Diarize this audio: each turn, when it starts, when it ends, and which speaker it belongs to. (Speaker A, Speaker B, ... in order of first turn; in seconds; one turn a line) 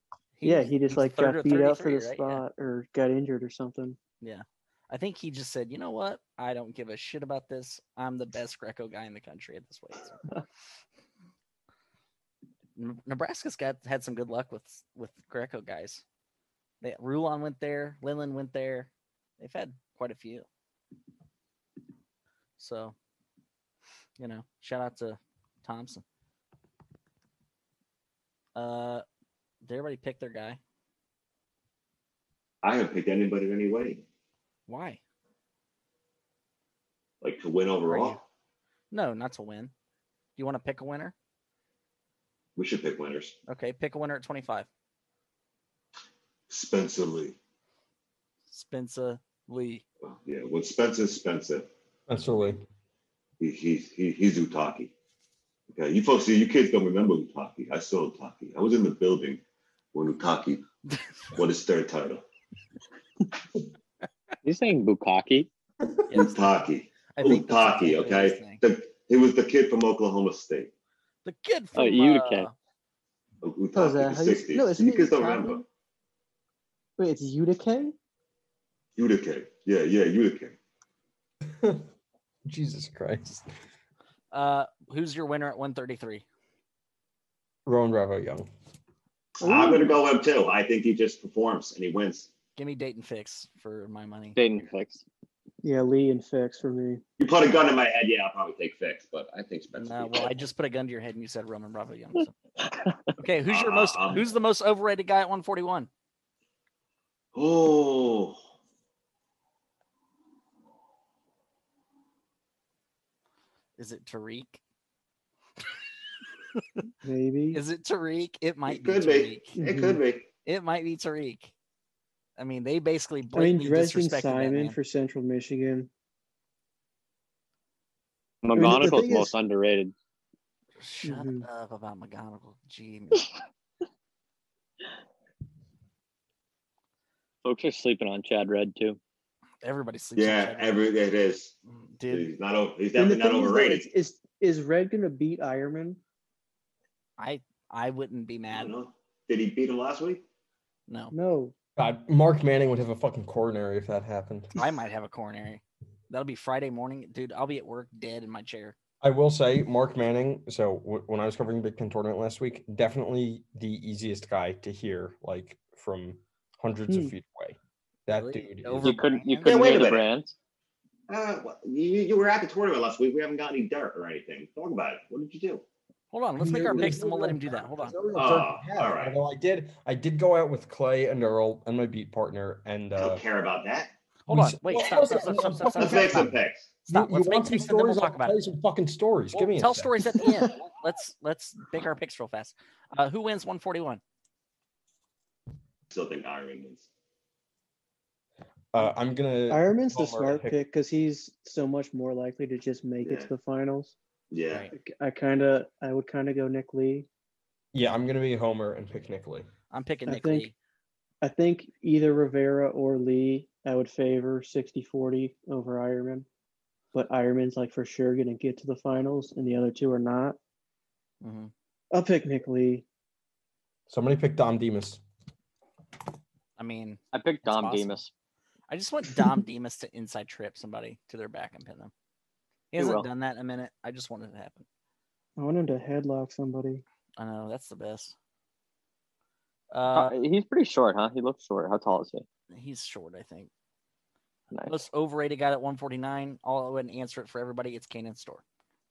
Speaker A: 0.4-2.4
Speaker B: 0.4-4.0
Speaker A: 4.2-10.2
Speaker A: 12.8-16.0
Speaker A: 16.8-20.5
Speaker A: 22.6-22.9
Speaker A: 24.2-26.0
Speaker A: 28.6-29.1
Speaker A: 29.6-30.6
Speaker C: 32.6-34.0
Speaker A: 34.7-35.0
Speaker C: 37.2-38.2
Speaker A: 37.9-38.2
Speaker A: 38.9-39.7
Speaker A: 40.4-41.1
Speaker C: 42.6-43.4
Speaker A: 43.5-44.7
Speaker C: 46.5-47.4
Speaker A: 48.5-49.8
Speaker C: 50.0-51.7
Speaker D: 52.1-52.6
Speaker C: 53.4-54.9
Speaker C: 55.7-59.4
Speaker C: 59.9-60.6
Speaker C: 61.4-62.2
Speaker E: 64.4-65.5
Speaker A: 66.1-66.5
Speaker C: 66.1-70.7
Speaker A: 67.2-68.6
Speaker A: 71.2-72.5
Speaker E: 71.8-72.5
Speaker C: 73.4-75.6
Speaker B: 73.7-75.6
Speaker B: 77.0-77.9
Speaker C: 79.0-80.6
Speaker D: 81.6-81.9
Speaker D: 82.5-83.3
Speaker A: 84.3-86.2
Speaker D: 87.7-88.5
Speaker C: 89.4-92.3
Speaker B: 89.4-90.0
Speaker A: 92.6-94.4
Speaker E: 94.4-95.0
Speaker B: 95.6-97.0
Speaker C: 97.2-100.4
Speaker A: 99.8-102.3
Speaker A: 103.2-105.9
Speaker C: 103.5-104.3
Speaker C: 107.3-108.4
Speaker A: 113.8-114.6
Speaker B: 117.0-117.6
Speaker A: 117.5-119.6
Speaker C: 118.7-120.3
Speaker B: 119.6-120.0
Speaker A: 120.5-121.5
Speaker A: 122.4-124.8
Speaker B: 123.3-125.9
Speaker E: 128.4-129.9
Speaker B: 128.6-129.3
Speaker A: 130.8-133.3
Speaker B: 131.0-131.5
Speaker E: 137.4-139.0
Speaker A: 139.6-140.9
Speaker C: 140.2-141.6
Speaker A: 141.8-142.3
Speaker C: 142.1-143.9
Speaker B: 143.0-146.0
Speaker A: 147.2-148.7
Speaker C: 148.5-150.2
Speaker A: 150.9-151.1
Speaker B: 151.1-151.6
Speaker D: 151.8-154.5
Speaker A: 154.6-158.8
Speaker D: 159.0-169.0
Speaker B: 166.9-167.1
Speaker A: 168.2-169.8
Speaker E: 168.8-170.3
Speaker C: 169.4-170.1
Speaker C: 171.1-175.6
Speaker A: 176.1-178.0
Speaker D: 176.4-183.2
Speaker C: 178.2-179.2
Speaker C: 183.0-183.9
Speaker A: 184.3-186.3
Speaker D: 184.3-186.3
Speaker C: 185.4-186.7
Speaker D: 186.9-190.1
Speaker A: 186.9-188.4
Speaker A: 189.3-194.0
Speaker C: 195.9-196.9
Speaker D: 198.7-200.6
Speaker B: 199.5-203.9
Speaker C: 203.0-203.3
Speaker C: 204.3-204.7
Speaker B: 204.7-207.1
Speaker D: 207.7-209.5
Speaker A: 209.7-210.6
Speaker B: 210.1-210.5
Speaker B: 211.2-216.3
Speaker B: 216.9-220.4
Speaker A: 221.2-221.5
Speaker B: 221.9-222.8
Speaker D: 223.9-225.0
Speaker A: 226.6-228.0
Speaker E: 227.1-228.1
Speaker A: 228.7-231.9
Speaker A: 232.7-234.7
Speaker E: 232.8-233.1
Speaker B: 235.4-236.8
Speaker A: 237.2-238.2
Speaker A: 239.7-240.2
Speaker E: 239.9-242.2
Speaker A: 242.5-243.5
Speaker E: 244.5-244.8
Speaker A: 244.7-248.4